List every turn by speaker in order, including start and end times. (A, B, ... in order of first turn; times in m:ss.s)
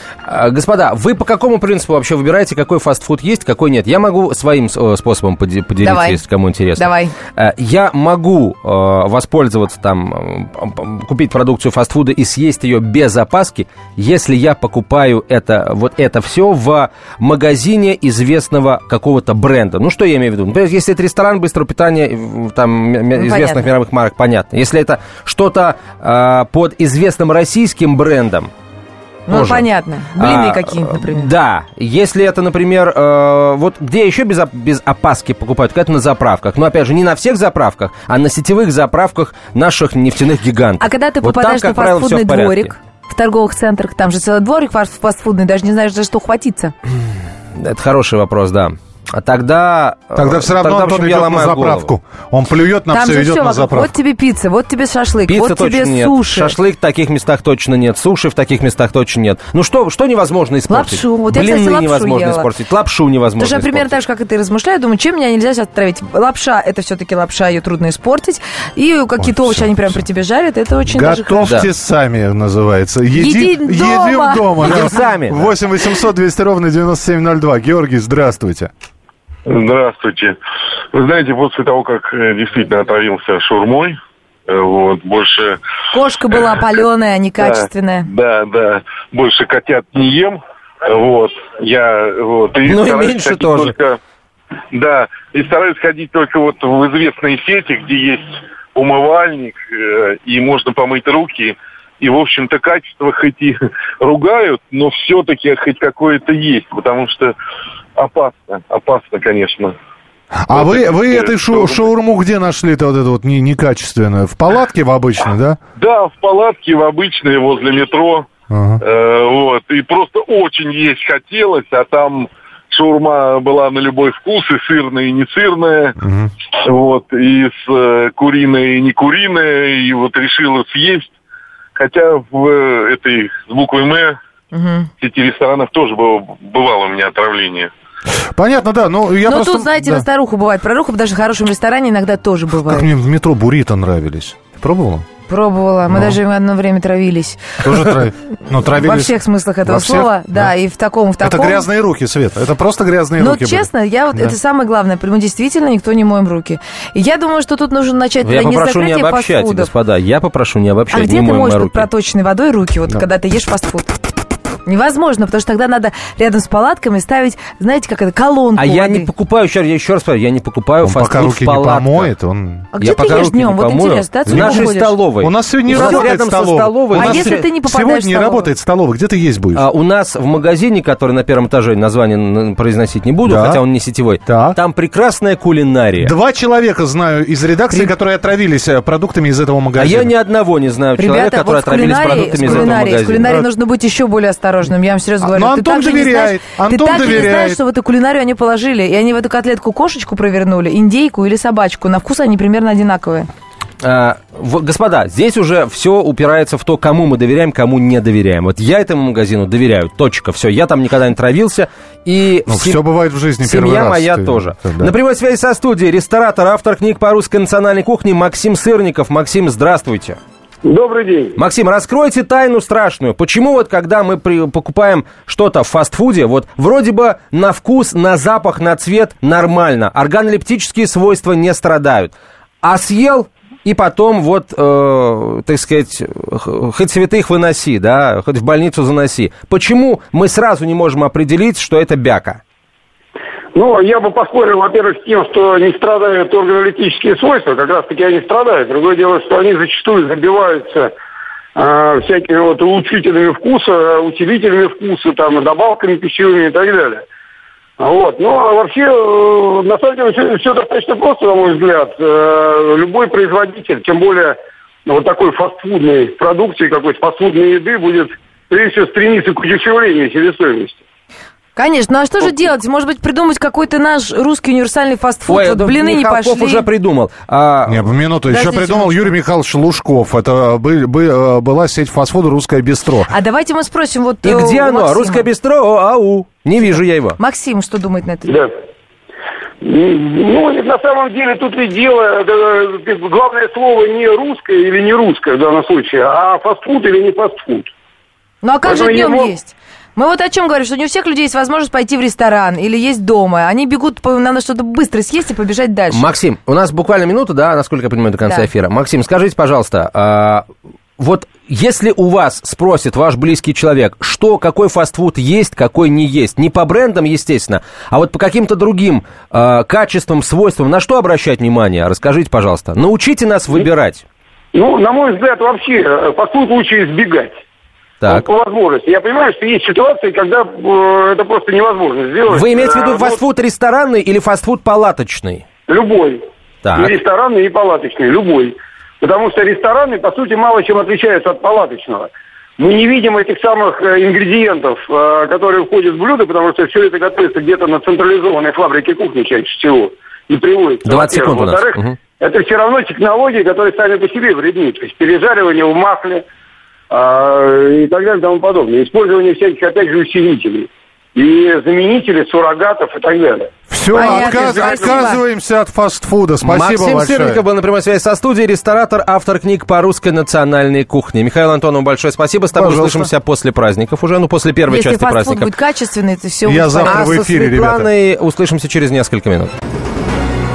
0:00.3-0:28.5 A
0:05.8-0:06.2 B
0:06.8-0:07.1 B
0:23.2-0:23.7 B
0:29.3-0:31.3 B
0:29.3-0:42.7 A
0:40.8-0:46.7 B
0:47.5-0:51.9 A
0:50.1-0:53.9 C
0:52.9-0:56.6 B
0:55.3-1:03.9 A
1:00.7-1:02.5 B
1:03.4-1:11.5 B
1:09.2-1:10.0 C
1:10.8-1:18.7 C
1:11.4-1:11.7 A
1:13.1-1:14.9 B
1:14.6-1:15.5 A
1:19.4-1:20.4 D
1:20.9-1:24.0 D
1:24.5-1:25.6 D
1:25.9-1:28.1 B
1:28.1-1:34.0 D
1:32.6-1:33.7 A
1:34.7-1:47.3 D
1:48.0-1:49.7 D
1:50.4-1:55.6 C
1:50.5-1:51.9 D
1:55.8-1:58.3 D
1:58.5-1:58.8 C
1:58.8-2:06.0 D
2:06.0-2:06.3 C
2:06.6-2:11.1 D
2:11.7-2:14.2 D
2:14.5-2:14.9 B
2:15.0-2:17.7 D
2:18.3-2:20.0 C
2:19.2-2:22.9 B
2:22.6-2:25.0 C
2:25.3-2:27.4 B
2:25.9-2:26.2 C
2:27.6-2:30.5 C
2:28.7-2:31.6 B
2:31.2-2:34.3 C
2:33.2-2:39.7 B
2:38.2-2:41.9 A
2:40.9-2:43.9 B
2:44.6-2:49.1 B
2:48.6-2:52.1 A
2:50.8-2:52.7 C
2:52.7-2:54.9 B
2:52.8-2:57.4 A
2:54.2-2:59.6 C
2:55.7-2:56.0 B
2:56.9-2:58.5 B
2:59.5-3:06.1 A
3:03.2-3:03.6 C
3:04.2-3:04.6 C
3:06.0-3:10.1 C
3:09.8-3:13.3 A
3:11.0-3:23.3 B
3:12.4-3:13.5 C
3:15.2-3:17.6 C
3:23.8-3:32.8 A
3:32.5-3:34.9 C
3:33.4-3:40.2 A
3:40.6-3:41.4 E
3:41.4-4:02.4 A
4:03.5-4:10.9 E
4:11.5-4:17.0 E
4:17.8-4:30.8 E
4:31.6-4:36.6 B
4:35.3-4:37.8 A
4:37.6-4:43.1 C
4:38.3-4:39.1 B
4:43.1-4:45.3 B
4:44.2-4:47.2 A
4:47.2-4:48.4 B
4:48.2-4:48.5 E
4:49.6-4:57.7 E
4:58.4-5:06.0 B
4:58.6-4:59.3 E
5:05.9-5:10.5 A
5:11.0-5:24.0 A
5:24.5-5:27.4 E
5:28.0-5:28.3 A
5:28.0-5:33.2 E
5:32.3-5:35.4 A
5:35.7-5:36.2 E
5:36.6-5:36.9 A
5:36.7-5:56.2 E
5:50.8-5:52.0 A
5:56.9-6:05.0 E
6:03.7-6:07.4 C
6:03.9-6:05.2 B
6:06.4-6:15.5 A
6:12.5-6:13.1 C
6:14.7-6:17.0 B
6:16.4-6:17.9 C
6:16.8-6:19.5 A